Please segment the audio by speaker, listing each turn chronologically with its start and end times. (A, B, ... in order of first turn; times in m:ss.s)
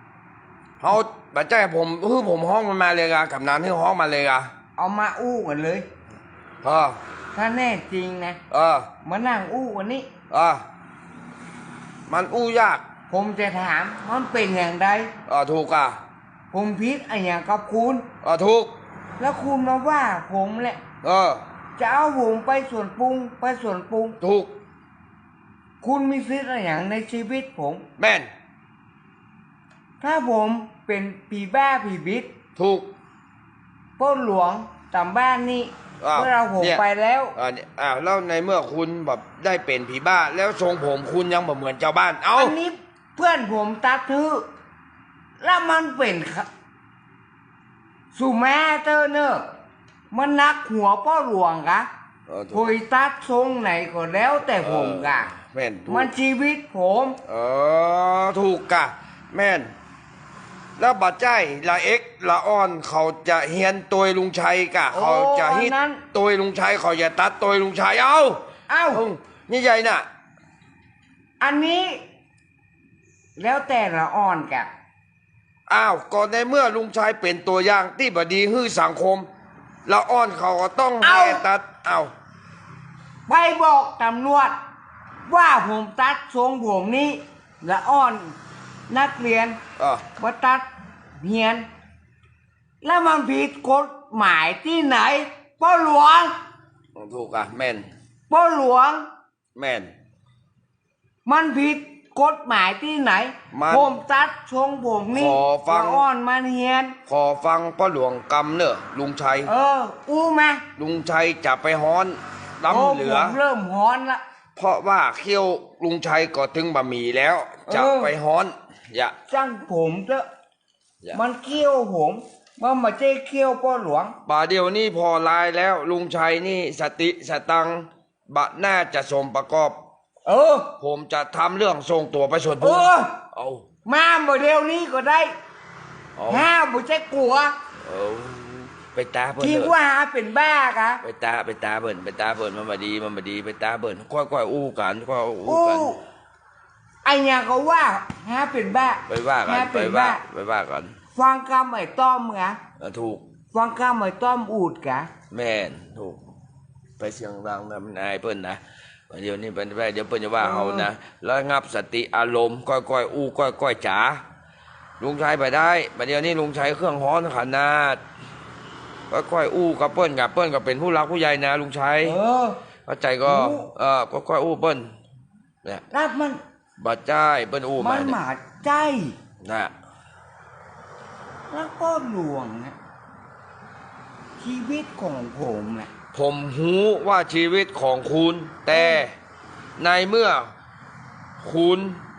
0:00.8-0:04.5 A
0:04.8-0:05.8 B
0:06.6-0:07.0 A
0:07.3-0:08.4 B
0:08.5-0:08.9 A
0:09.0-0:10.1 B
0:10.3-0:10.6 A
0:12.1-0:12.8 A
0:13.1-0:15.1 B
0:15.2-0:16.0 A
0:16.5-0:18.0 B
0:18.2-0:18.7 A
0:19.2-0:20.8 B
0:21.0-0:21.4 A
0:21.8-0:24.2 B
0:24.2-0:24.5 A
0:25.8-0:27.8 B
0:28.0-0:28.3 A
0:30.0-0:32.3 B
0:32.6-0:32.9 A
0:34.0-0:37.3 B
0:36.0-0:36.8 A
0:37.3-0:42.6 A
0:42.3-0:44.4 B
0:45.4-0:46.5 B
0:48.1-0:49.5 B
0:50.1-0:51.9 B
0:52.3-0:52.7 A
0:52.5-0:55.3 B
0:54.6-0:56.1 A
0:55.9-0:57.2 B
0:57.2-0:59.7 A
1:00.8-1:08.4 A
1:04.9-1:06.0 B
1:08.7-1:09.0 B
1:08.9-1:10.0 A
1:11.4-1:12.0 B
1:13.4-1:14.7 B
1:15.7-1:19.3 A
1:19.8-1:22.1 A
1:21.0-1:21.4 B
1:23.3-1:24.6 B
1:25.3-1:28.4 B
1:28.9-1:29.6 B
1:29.8-1:30.0 A
1:30.2-1:30.7 B
1:31.2-1:31.6 B
1:32.8-1:36.4 B
1:37.0-1:37.9 A
1:38.3-1:39.1 B
1:39.5-1:39.9 A
1:41.2-1:47.0 B
1:43.5-1:43.9 A
1:45.1-1:46.0 A
1:47.1-1:49.5 A
1:49.4-1:50.6 B
1:50.8-1:53.4 A
1:52.7-1:54.2 B
1:54.6-1:59.1 A
1:57.7-1:58.1 B
1:59.3-2:00.3 B
2:01.1-2:04.2 B
2:04.2-2:09.8 A
2:10.2-2:10.7 B
2:10.8-2:13.6 A
2:12.6-2:13.1 B
2:13.8-2:15.3 B
2:16.2-2:16.5 A
2:16.3-2:17.5 B
2:17.8-2:19.7 A
2:19.4-2:21.0 B
2:21.0-2:25.9 A
2:25.4-2:26.0 B
2:27.0-2:30.2 B
2:29.1-2:31.0 A
2:31.1-2:32.6 B
2:32.8-2:33.3 A
2:33.5-2:35.1 B
2:35.3-2:36.2 A
2:37.0-2:44.2 A
2:40.4-2:40.9 B
2:45.0-2:48.0 A
2:49.1-2:52.2 A
2:52.0-2:52.6 B
2:52.8-2:54.9 A
2:53.2-2:53.7 B
2:55.9-2:56.4 B
2:56.8-2:58.2 A
2:57.8-2:59.2 B
2:59.4-2:59.7 A
3:01.5-3:02.8 B
3:04.4-3:05.9 B
3:06.1-3:09.1 A
3:08.7-3:09.0 B
3:09.8-3:10.5 A
3:11.4-3:12.0 A